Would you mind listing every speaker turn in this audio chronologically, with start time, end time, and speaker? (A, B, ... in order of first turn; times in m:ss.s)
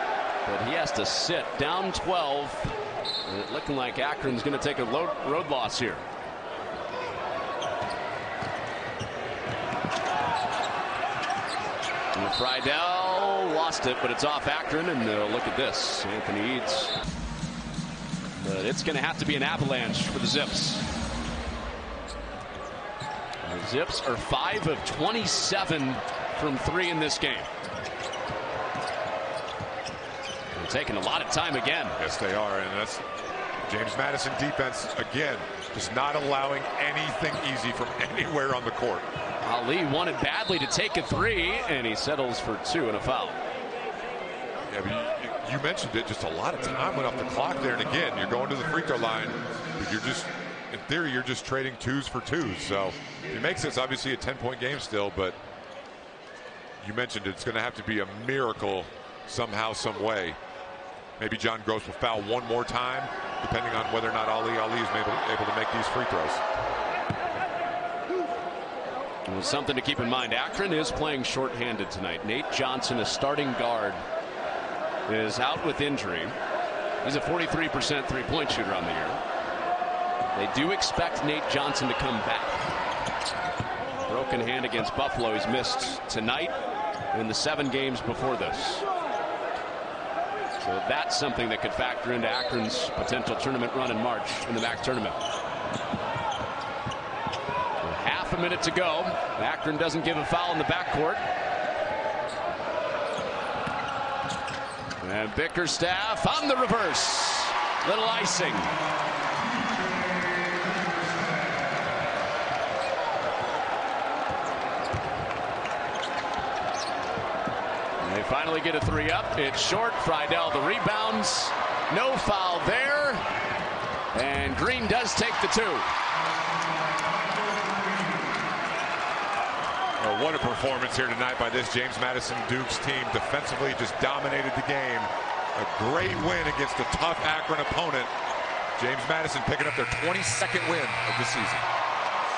0:00.4-0:06.0 A
0:12.1-0:16.9 A
0:18.4-0:20.9 A
0:23.4-0:27.5 A
0:30.5-0:32.0 A
0:32.0-0:33.0 B
0:33.6-0:39.1 B
0:39.4-0:43.4 A
0:44.7-0:55.4 B
0:56.8-1:00.4 B
1:01.2-1:06.4 B
1:09.2-1:14.0 A
1:15.1-1:16.4 A
1:17.0-1:19.2 A
1:20.3-1:22.6 A
1:24.0-1:26.6 A
1:27.1-1:28.8 A
1:30.6-1:35.2 A
1:37.8-1:41.2 A
1:45.0-1:48.8 A
1:58.0-2:03.2 A
2:04.1-2:05.9 A
2:10.0-2:18.1 B
2:18.8-2:21.7 B